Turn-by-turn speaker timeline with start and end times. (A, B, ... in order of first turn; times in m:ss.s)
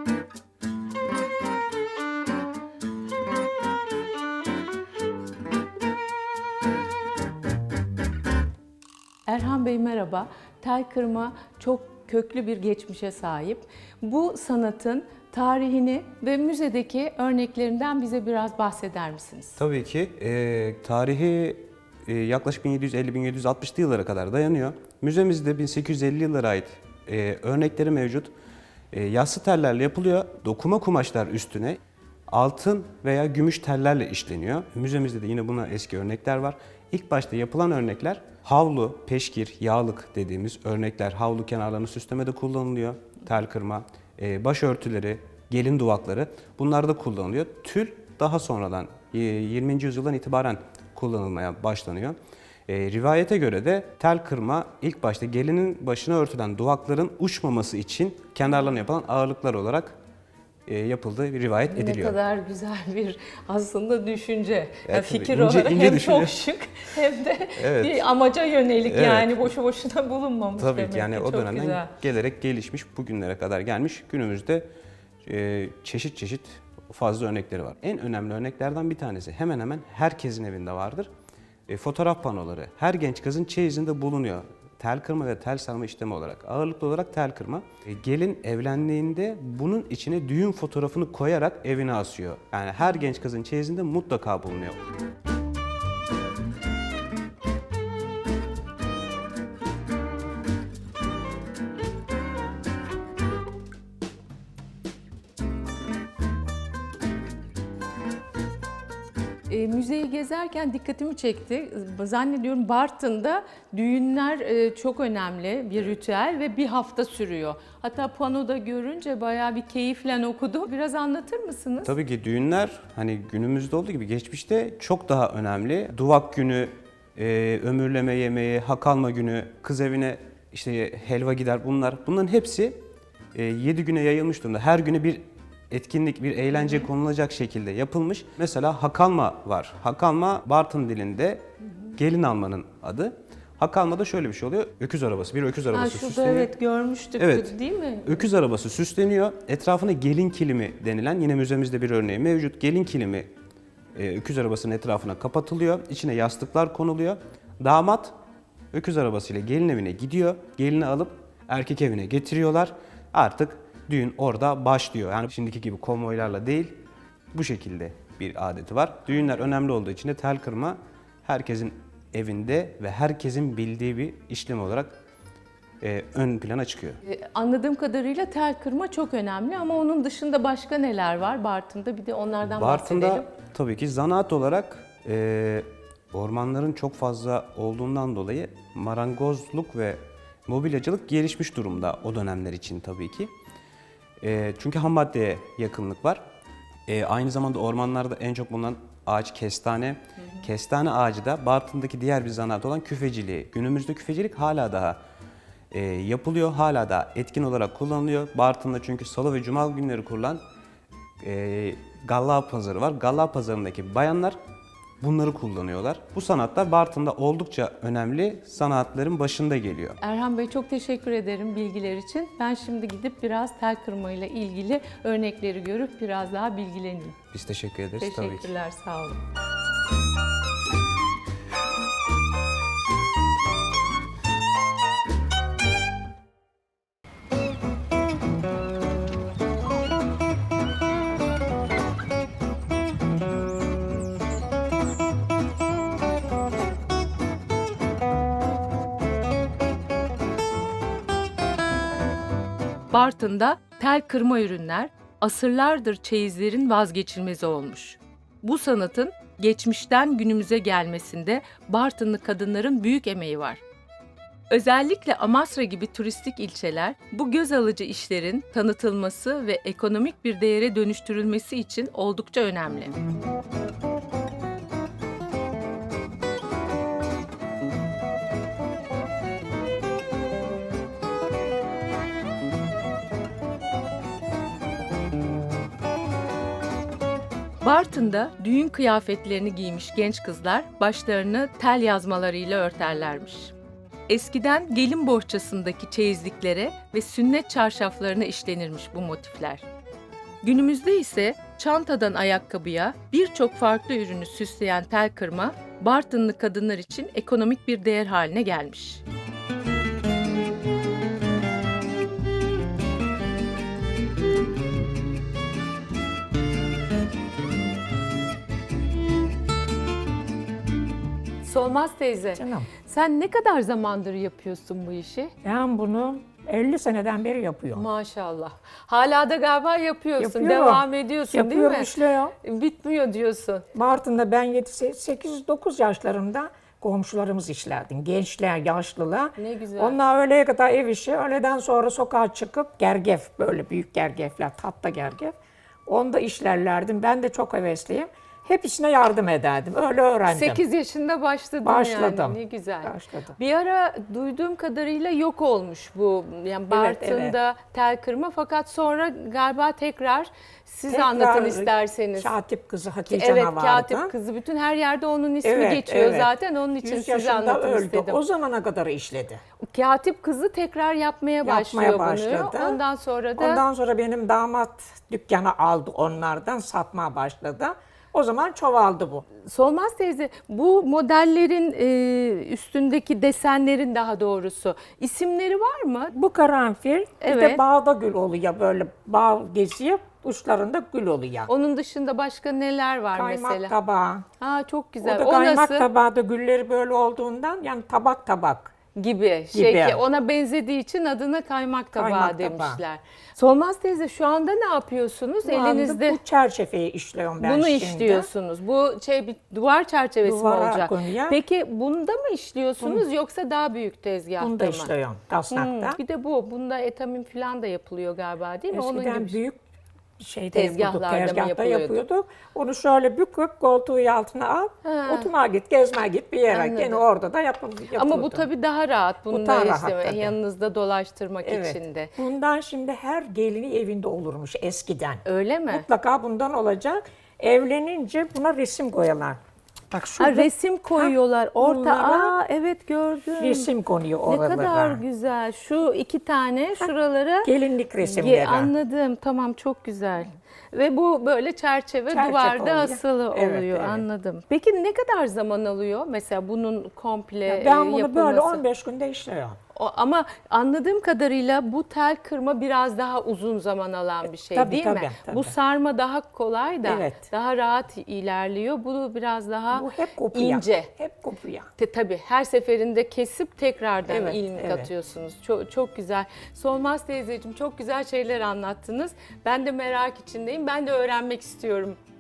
0:09.3-0:19.6 A
0:19.6-0:28.3 B
0:28.9-0:31.8 B
0:32.3-0:52.2 B
0:52.7-1:00.0 B
1:00.7-1:02.2 B
1:01.7-1:11.9 A
1:04.9-1:06.4 B
1:07.6-1:08.1 B
1:08.9-1:09.5 B
1:10.6-1:14.7 B
1:15.2-1:21.1 B
1:21.7-1:34.8 B
1:49.5-2:01.9 A
2:01.8-2:12.8 B
2:13.3-2:26.5 B
2:25.7-2:28.1 A
2:27.2-2:33.3 B
2:34.0-2:38.1 B
2:38.7-2:46.8 B
2:47.3-2:55.0 B
2:55.8-2:57.0 B
2:57.1-3:03.3 A
3:02.5-3:13.3 B
3:14.2-3:16.2 B
3:16.9-3:25.0 B
3:25.7-3:30.4 B
3:31.2-3:34.4 B
3:35.0-3:40.0 B
3:40.0-3:47.2 A
3:47.3-3:48.6 B
3:48.0-3:49.2 A
4:12.9-4:23.6 A
4:24.5-4:32.9 A
4:47.6-4:53.5 A
4:54.1-4:59.6 A
5:00.4-5:09.0 A
5:21.4-5:25.3 A
5:22.4-5:22.7 C
5:25.4-5:27.9 C
5:27.7-5:31.9 A
5:30.2-5:32.3 C
5:32.4-5:33.7 A
5:33.7-5:45.3 C
5:39.4-5:40.0 A
5:45.9-5:50.6 C
5:50.3-6:02.3 A
5:51.6-5:53.4 C
5:56.7-5:57.4 C
6:00.9-6:04.1 C
6:03.1-6:08.2 A
6:05.4-6:09.4 C
6:09.7-6:13.6 A
6:11.4-6:12.8 C
6:13.4-6:19.3 C
6:19.4-6:26.1 A
6:26.1-6:31.5 C
6:27.2-6:27.6 A
6:31.5-6:33.7 A
6:33.1-6:34.3 C
6:34.4-6:35.9 A
6:35.0-6:38.7 C
6:39.0-6:46.2 A
6:39.5-6:40.0 C
6:42.0-6:42.8 C
6:45.5-6:48.3 C
6:47.4-6:54.9 A
6:50.2-6:51.4 C
6:54.4-6:56.0 C
6:55.5-6:59.4 A
6:58.7-6:59.6 C
7:00.2-7:08.5 C
7:00.5-7:02.0 A
7:04.8-7:05.3 A
7:06.5-7:07.0 A
7:07.9-7:12.1 A
7:09.3-7:10.4 C
7:11.4-7:19.4 C
7:15.3-7:15.9 A
7:19.9-7:22.3 C
7:20.2-7:23.7 A
7:23.4-7:25.0 C
7:24.3-7:38.6 A
7:27.4-7:28.7 C
7:32.1-7:34.1 C
7:37.5-7:39.6 C
7:39.8-7:50.9 A
7:44.5-7:45.5 C
7:46.8-7:47.3 C
7:49.7-7:51.7 C
7:51.8-8:02.0 A
7:54.1-7:54.9 C